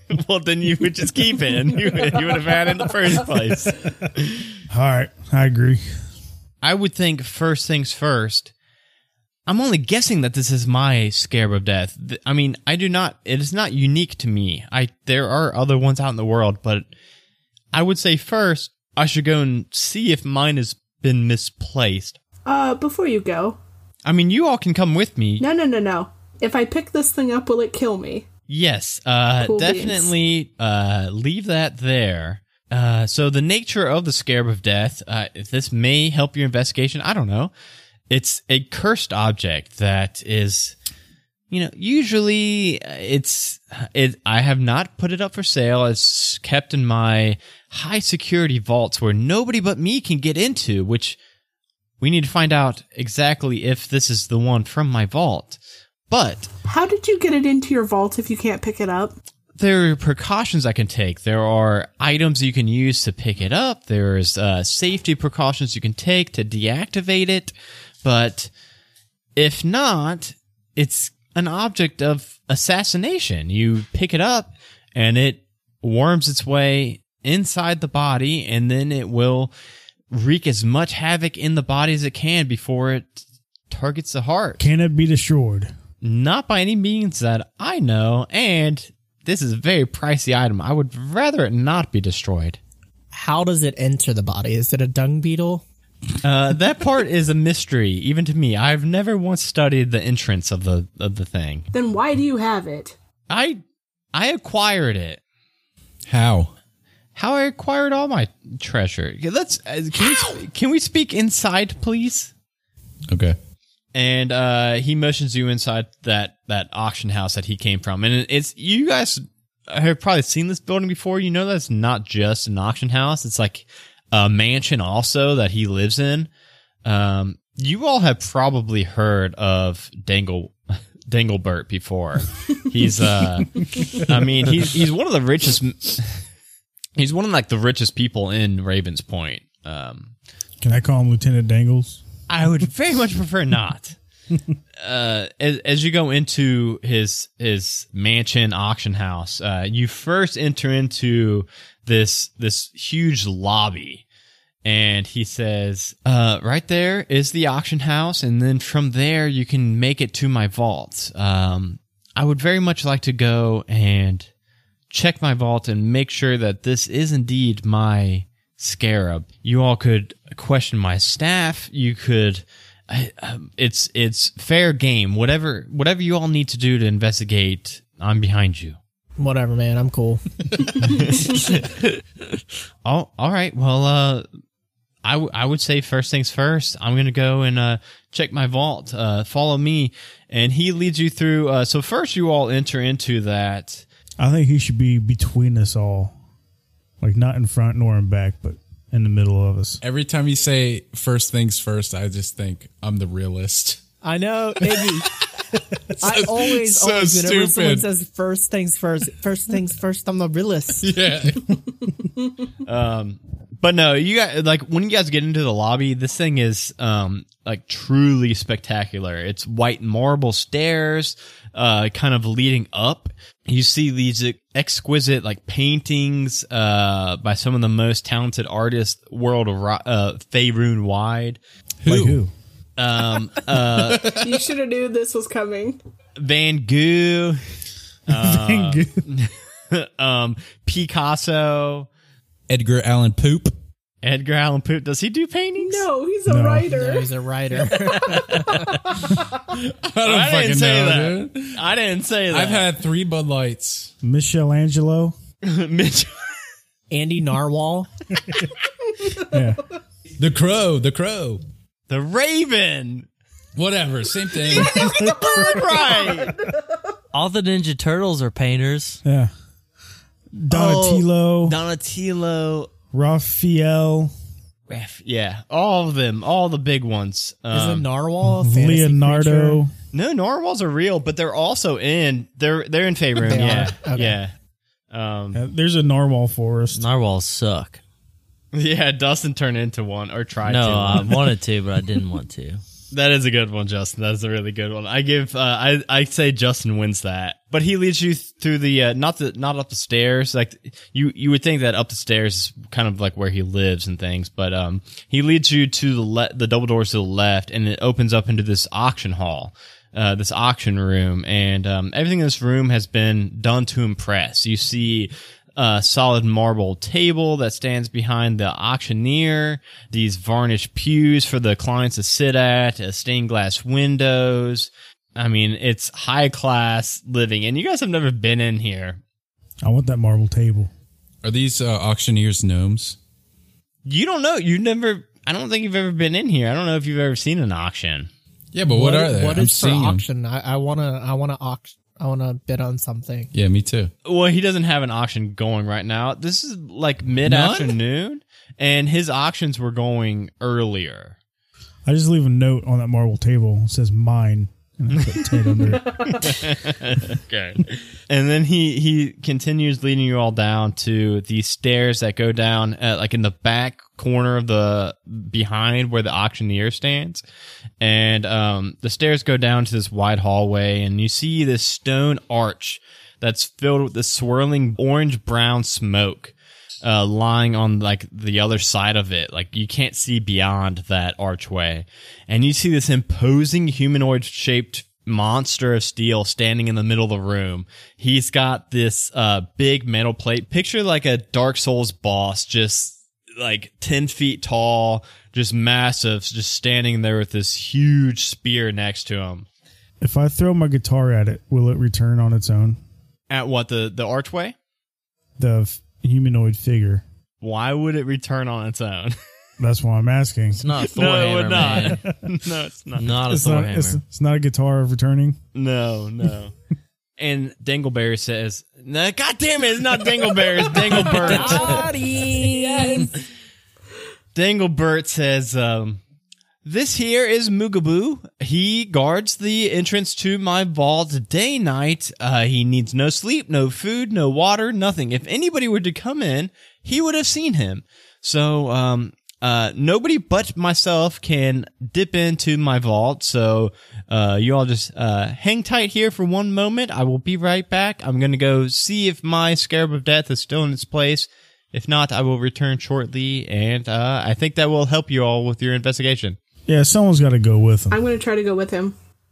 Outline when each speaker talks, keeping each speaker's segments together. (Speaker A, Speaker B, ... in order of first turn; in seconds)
Speaker A: 0.1-4.2, 6.6-8.5, 9.5-16.9, 17.7-22.2, 24.0-25.4, 28.5-37.5, 38.1-40.8, 41.5-51.2, 52.0-56.5, 59.6-67.5, 68.0-68.5, 69.3-79.5, 80.1-84.6, 86.0-92.6, 96.2-101.7, 103.3-103.6, 104.1-105.2, 107.1-112.3, 113.9-126.3, 126.8-130.5, 131.1-136.2, 137.0-140.1, 142.3-144.0, 144.8-154.0, 154.6-164.3, 164.9-178.8, 180.8-181.6, 182.8-184.2, 185.0-193.8, 212.6-231.4, 232.8-234.2, 236.2-237.4, 238.1-241.9, 244.0-245.8, 250.0-252.7, 255.4-256.1, 261.9-263.1, 264.6-266.4, 270.5-272.7, 274.7-277.9, 279.9-284.3, 284.9-285.4, 288.5-291.3, 292.9-329.0, 333.8-338.1, 344.1-351.1, 355.9-367.2, 367.8-399.5, 403.3-404.6, 407.4-409.1, 410.8-413.1, 415.5-416.5, 417.2-421.7, 424.3-426.0, 426.6-456.4
Speaker B: 4.7-5.8, 84.6-85.7, 140.6-142.0, 194.2-196.1, 197.0-199.8, 231.9-232.3, 238.1-239.0, 246.3-246.7, 254.0-255.1, 259.2-259.7, 264.7-265.6, 269.0-269.3, 270.3-271.6, 272.9-274.1, 278.2-279.7, 285.3-286.8, 329.6-330.7, 351.9-356.4, 400.0-402.8, 405.4-407.0, 409.6-410.7, 411.6-412.1, 413.2-415.4, 456.7-458.0
Speaker C: 22.4-23.6, 25.4-28.2, 29.4-30.1, 56.6-59.1, 101.7-102.9, 234.1-235.8, 245.6-247.1, 421.4-421.8, 422.5-423.1, 457.9-458.9
Speaker D: 93.1-95.6, 179.2-180.2, 204.0-205.1, 206.0-211.0, 246.7-248.7, 256.9-257.9, 277.5-279.6, 283.2-284.2, 338.7-343.3, 421.0-423.1
Speaker E: 106.0-106.5, 113.1-113.3, 199.8-203.8, 204.7-205.0, 206.0-207.9, 210.8-211.6, 231.8-232.2, 233.5-234.3, 242.5-243.5, 249.5-251.6, 252.3-253.9, 260.2-261.4, 263.6-265.1, 331.2-333.0, 338.5-340.0, 343.3-343.9, 347.2-347.8
Speaker F: 267.1-269.0, 286.7-287.8, 290.4-292.6, 410.5-412.0, 412.9-414.0